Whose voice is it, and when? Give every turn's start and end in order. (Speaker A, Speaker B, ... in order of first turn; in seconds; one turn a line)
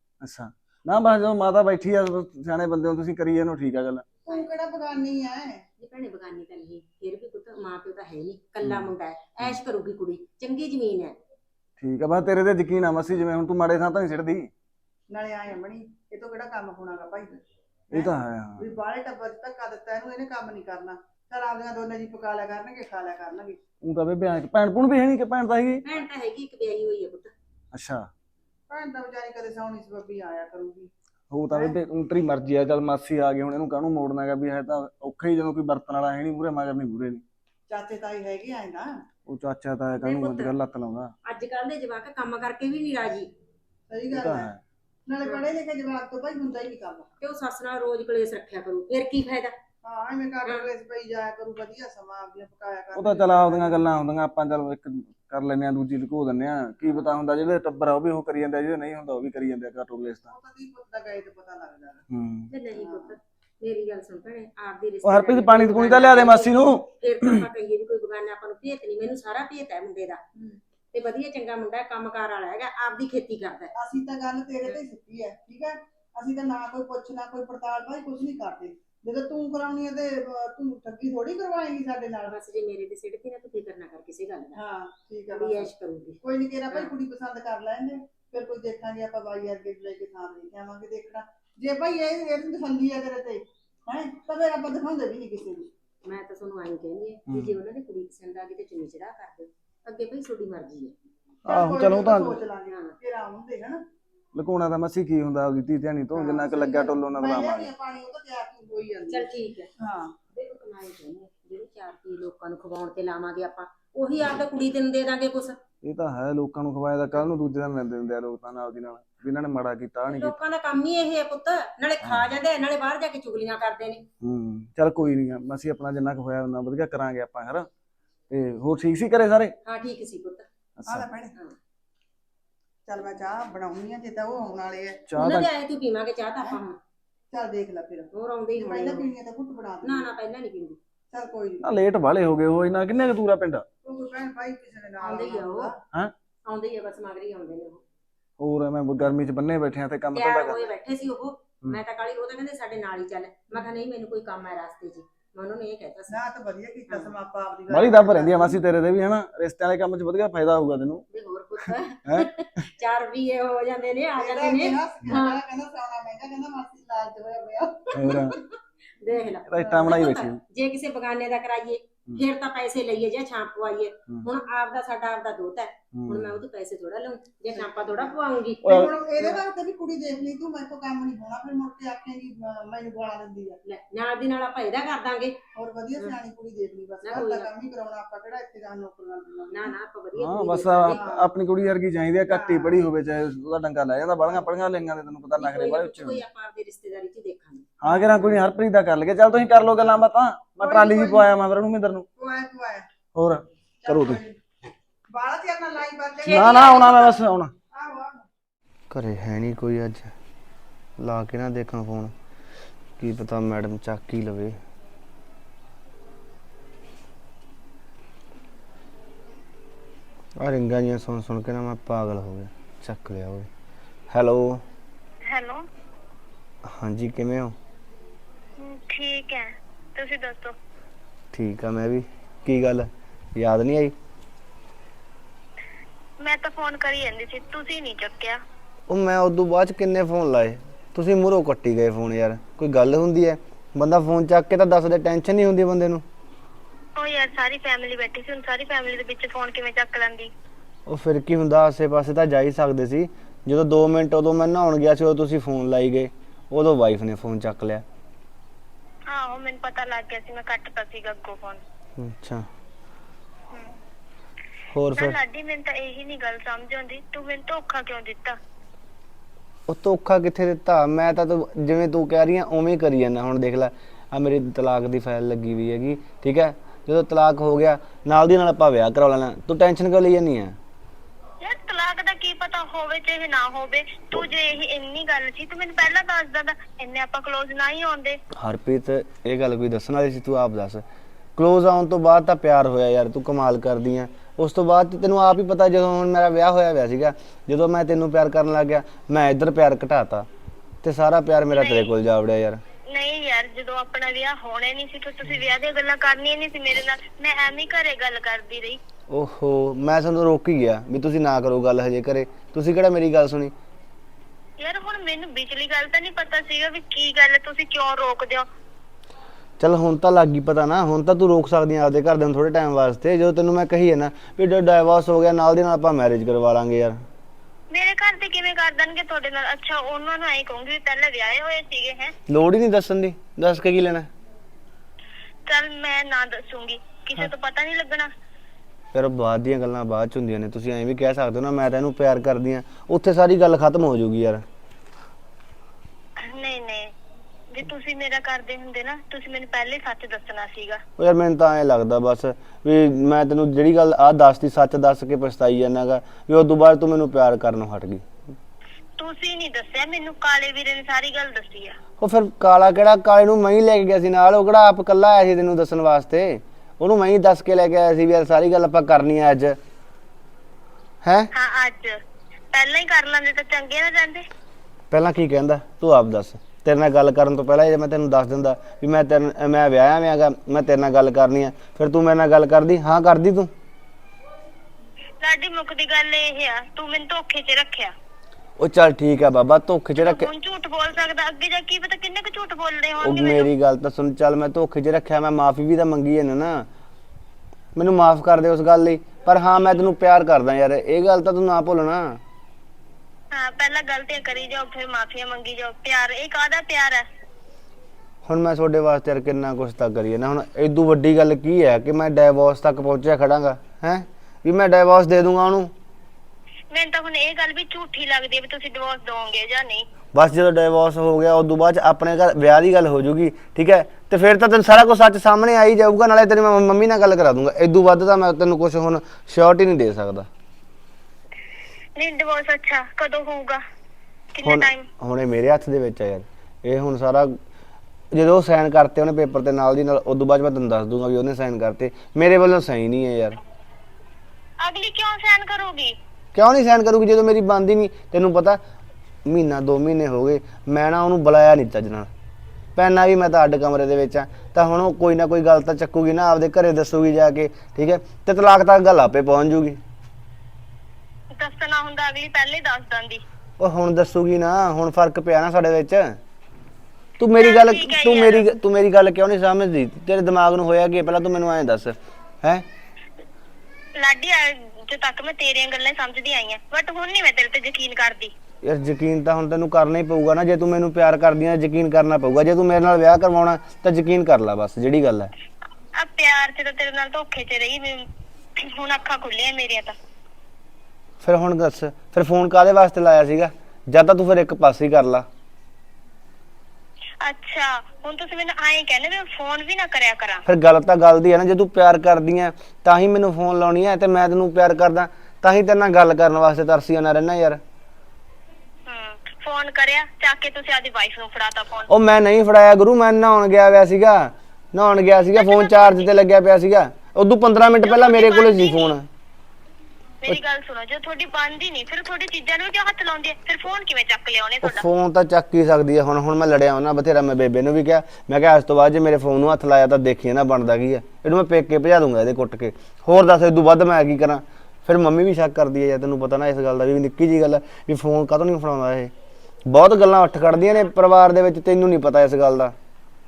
Speaker A: 0.2-4.1
Speaker B: 4.2-5.6
Speaker C: 5.8-11.2
Speaker A: 8.6-9.6
Speaker A: 11.8-14.5
Speaker B: 15.1-17.4
Speaker A: 17.9-18.6
Speaker B: 17.9-23.6
Speaker A: 23.8-25.9
Speaker C: 25.9-27.3
Speaker A: 27.7-28.1
Speaker B: 28.7-30.9
Speaker A: 31.3-37.2
Speaker B: 37.7-39.0
Speaker A: 39.3-41.1
Speaker C: 40.0-40.5
Speaker C: 41.2-43.3
Speaker B: 43.9-44.5
Speaker A: 44.1-44.6
Speaker B: 45.1-47.1
Speaker C: 47.2-49.5
Speaker B: 49.8-53.8
Speaker A: 53.0-60.3
Speaker B: 60.3-62.0
Speaker A: 62.1-62.5
Speaker C: 62.5-70.2
Speaker B: 62.7-63.2
Speaker A: 65.0-67.5
Speaker C: 70.9-73.7
Speaker B: 73.8-82.4
Speaker C: 82.3-84.6
Speaker B: 84.6-85.7
Speaker C: 85.3-86.2
Speaker B: 86.2-95.7
Speaker C: 96.0-101.0
Speaker A: 97.3-97.6
Speaker A: 101.5-102.4
Speaker B: 101.5-103.8
Speaker C: 102.7-103.0
Speaker A: 104.3-107.7
Speaker B: 106.2-110.2
Speaker C: 106.4-107.0
Speaker C: 109.1-109.7
Speaker C: 110.3-115.6
Speaker A: 115.8-120.4
Speaker C: 120.1-124.0
Speaker A: 122.0-122.3
Speaker A: 124.2-127.7
Speaker A: 128.3-129.6
Speaker C: 129.7-130.5
Speaker A: 130.8-131.1
Speaker B: 130.9-131.3
Speaker B: 132.9-135.0
Speaker A: 135.1-135.5
Speaker C: 135.2-136.8
Speaker B: 137.3-140.1
Speaker C: 138.1-139.1
Speaker C: 139.8-140.8
Speaker B: 141.1-141.7
Speaker A: 141.6-143.7
Speaker B: 143.8-145.8
Speaker C: 145.0-145.7
Speaker C: 146.5-147.8
Speaker A: 148.4-150.7
Speaker C: 150.1-156.2
Speaker B: 156.1-158.6
Speaker C: 156.9-157.2
Speaker A: 157.7-161.1
Speaker C: 161.1-165.4
Speaker A: 162.1-162.3
Speaker B: 164.2-168.4
Speaker A: 167.9-168.4
Speaker C: 169.0-178.7
Speaker A: 169.5-170.4
Speaker B: 169.6-170.0
Speaker A: 175.9-176.4
Speaker B: 177.6-183.6
Speaker A: 178.6-179.4
Speaker C: 183.7-185.3
Speaker B: 185.6-189.8
Speaker C: 187.0-187.5
Speaker C: 189.5-191.0
Speaker A: 190.2-196.2
Speaker B: 190.9-191.3
Speaker B: 192.3-192.8
Speaker C: 195.3-197.7
Speaker A: 197.8-202.1
Speaker B: 197.8-198.4
Speaker B: 200.6-201.3
Speaker B: 202.2-202.9
Speaker A: 203.1-204.2
Speaker B: 203.8-204.4
Speaker B: 205.1-207.1
Speaker A: 206.2-207.5
Speaker C: 206.3-207.1
Speaker B: 207.7-208.3
Speaker D: 208.9-210.1
Speaker D: 211.0-212.1
Speaker D: 213.0-214.6
Speaker D: 220.4-223.5
Speaker D: 224.1-224.6
Speaker E: 225.3-225.7
Speaker D: 226.7-227.6
Speaker E: 228.6-230.6
Speaker D: 231.3-233.9
Speaker E: 236.2-238.4
Speaker D: 238.9-246.0
Speaker E: 247.0-250.3
Speaker D: 250.9-257.9
Speaker E: 259.1-261.6
Speaker D: 262.0-262.5
Speaker D: 264.7-265.2
Speaker E: 264.9-268.4
Speaker D: 269.7-280.6
Speaker E: 281.4-288.2
Speaker D: 288.3-290.8
Speaker D: 291.4-300.3
Speaker D: 300.8-302.6
Speaker E: 301.5-301.9
Speaker E: 302.9-308.8
Speaker D: 309.1-313.5
Speaker E: 314.6-318.5
Speaker D: 319.6-327.0
Speaker E: 327.7-332.1
Speaker D: 332.3-334.1
Speaker E: 335.5-338.1
Speaker D: 338.9-344.4
Speaker E: 346.2-346.9
Speaker E: 347.5-350.8
Speaker D: 351.0-358.1
Speaker E: 359.0-361.8
Speaker D: 362.0-369.6
Speaker D: 371.0-371.3
Speaker E: 371.3-372.0
Speaker E: 372.5-374.2
Speaker D: 374.9-383.5
Speaker E: 385.2-387.9
Speaker D: 388.6-390.3
Speaker E: 390.0-393.5
Speaker D: 393.0-396.7
Speaker D: 397.8-402.2
Speaker E: 403.3-407.1
Speaker D: 408.3-415.7
Speaker E: 416.7-419.9
Speaker D: 420.1-430.3
Speaker E: 432.0-433.6
Speaker E: 434.3-434.9
Speaker D: 434.4-437.4
Speaker D: 438.1-443.4
Speaker E: 444.6-446.0
Speaker D: 446.3-448.6
Speaker D: 449.3-452.1
Speaker D: 452.8-459.8
Speaker E: 461.3-463.2
Speaker D: 463.6-466.2
Speaker D: 467.2-472.7
Speaker E: 467.4-468.5
Speaker E: 474.0-478.3
Speaker D: 478.6-485.3
Speaker E: 486.0-488.1
Speaker E: 488.6-489.9
Speaker D: 491.2-495.3
Speaker E: 497.2-500.4
Speaker D: 500.5-507.6
Speaker E: 508.9-511.9
Speaker D: 511.9-519.1
Speaker E: 515.4-516.1
Speaker E: 517.8-518.9
Speaker E: 520.2-524.8
Speaker D: 524.6-539.1
Speaker D: 539.7-542.8